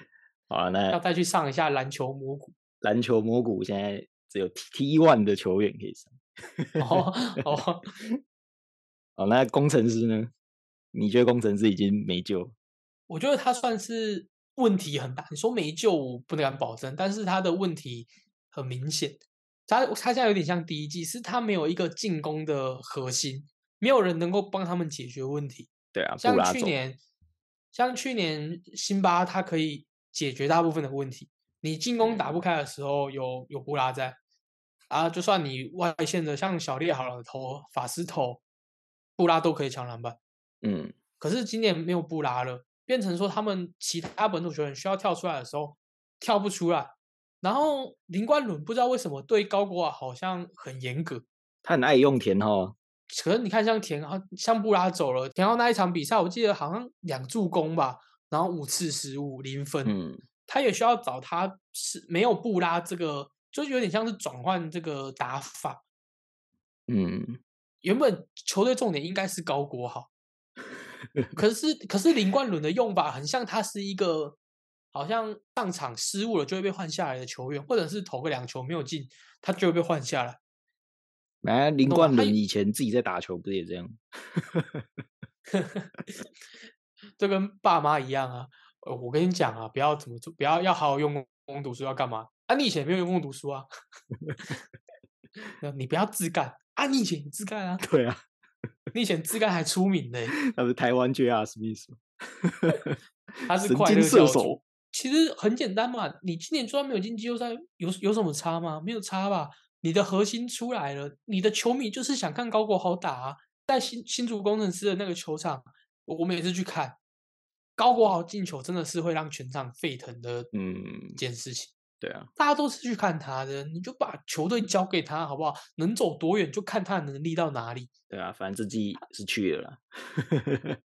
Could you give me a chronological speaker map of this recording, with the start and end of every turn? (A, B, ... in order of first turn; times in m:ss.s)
0:00.5-0:01.0 A
0:00.9-0:02.6 B
0:02.8-0:07.1 A
0:06.8-0:07.9 B
0:09.2-0:10.3 A
0:10.9-0:12.5 A
0:13.1-0:27.0 B
0:25.9-0:26.8 A
0:27.7-0:34.2 B
0:32.0-0:32.4 A
0:34.9-0:38.4 B
0:39.2-0:40.2 B
0:40.6-0:41.0 A
0:41.2-0:51.2 B
0:51.6-0:52.8 A
0:53.1-0:59.9 B
0:59.8-1:00.2 A
1:00.5-1:05.8 B
1:06.9-1:07.4 A
1:07.8-1:10.1 B
1:11.4-1:14.4 B
1:14.9-1:20.4 B
1:21.4-1:24.8 A
1:21.9-1:22.4 B
1:25.5-1:26.1 B
1:27.2-1:33.7 B
1:35.6-1:37.8 B
1:37.8-1:38.2 A
1:38.9-1:40.4 B
1:40.5-1:43.0 A
1:43.5-1:57.0 B
1:43.6-1:44.6 A
1:57.8-2:00.5 B
2:00.5-2:01.2 A
2:01.2-2:01.7 B
2:02.0-2:02.3 A
2:02.4-2:07.9 B
2:08.1-2:10.7 A